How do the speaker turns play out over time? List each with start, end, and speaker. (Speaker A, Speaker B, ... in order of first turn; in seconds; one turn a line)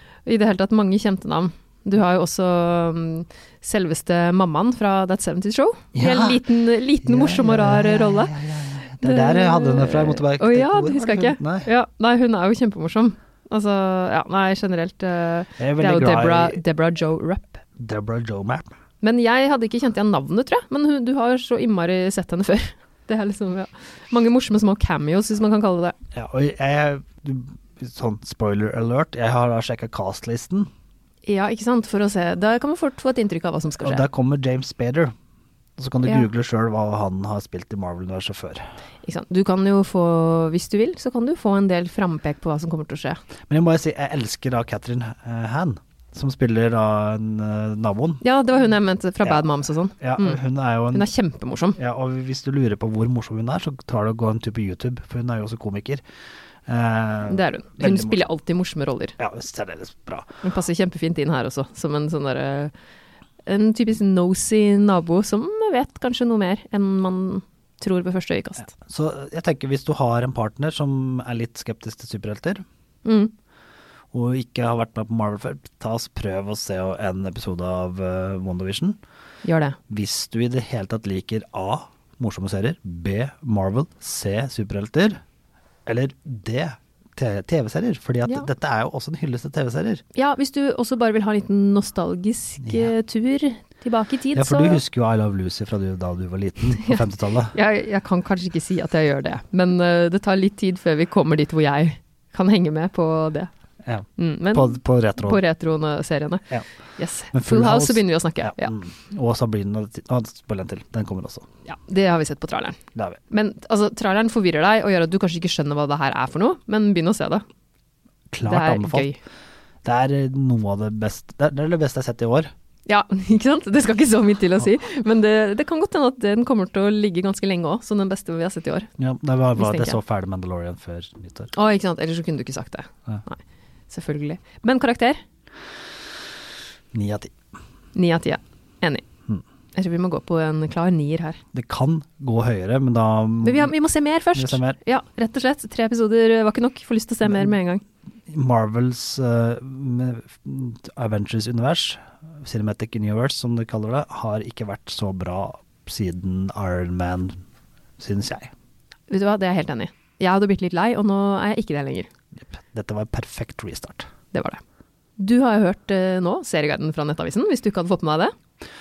Speaker A: 0.3-17.6
Speaker B: 5.9-6.4
Speaker B: 7.0-11.7
Speaker B: 15.6-16.6
Speaker B: 17.8-18.7
Speaker A: 19.0-25.9
Speaker B: 26.1-30.7
Speaker A: 31.3-34.1
Speaker B: 33.8-35.1
Speaker B: 35.8-38.6
Speaker A: 39.0-43.2
Speaker B: 43.5-48.2
Speaker A: 48.2-51.8
Speaker B: 50.0-51.1
Speaker B: 51.8-56.0
Speaker B: 56.7-58.2
Speaker A: 57.3-59.2
Speaker B: 59.2-60.4
Speaker A: 60.4-62.7
Speaker A: 63.5-68.7
Speaker B: 68.6-72.6
Speaker A: 73.0-73.3
Speaker B: 74.1-79.0
Speaker A: 79.4-79.8
Speaker B: 79.9-85.2
Speaker B: 85.9-90.0
Speaker A: 90.2-94.8
Speaker B: 92.6-92.9
Speaker B: 94.3-97.5
Speaker A: 96.8-103.5
Speaker B: 103.8-105.4
Speaker A: 104.2-108.7
Speaker B: 107.3-111.5
Speaker A: 111.7-112.8
Speaker B: 113.0-113.2
Speaker A: 113.3-117.4
Speaker B: 118.3-119.1
Speaker A: 118.5-119.2
Speaker B: 119.8-122.5
Speaker A: 122.9-128.9
Speaker B: 129.0-131.5
Speaker A: 129.6-130.0
Speaker A: 131.5-133.4
Speaker A: 133.9-135.2
Speaker B: 136.9-137.3
Speaker A: 137.9-139.0
Speaker A: 139.8-141.4
Speaker B: 141.5-143.7
Speaker A: 143.4-147.8
Speaker B: 144.3-144.8
Speaker B: 148.3-157.4
Speaker B: 158.0-158.5
Speaker A: 159.1-162.1
Speaker B: 162.4-164.1
Speaker A: 164.3-164.6
Speaker A: 165.2-168.3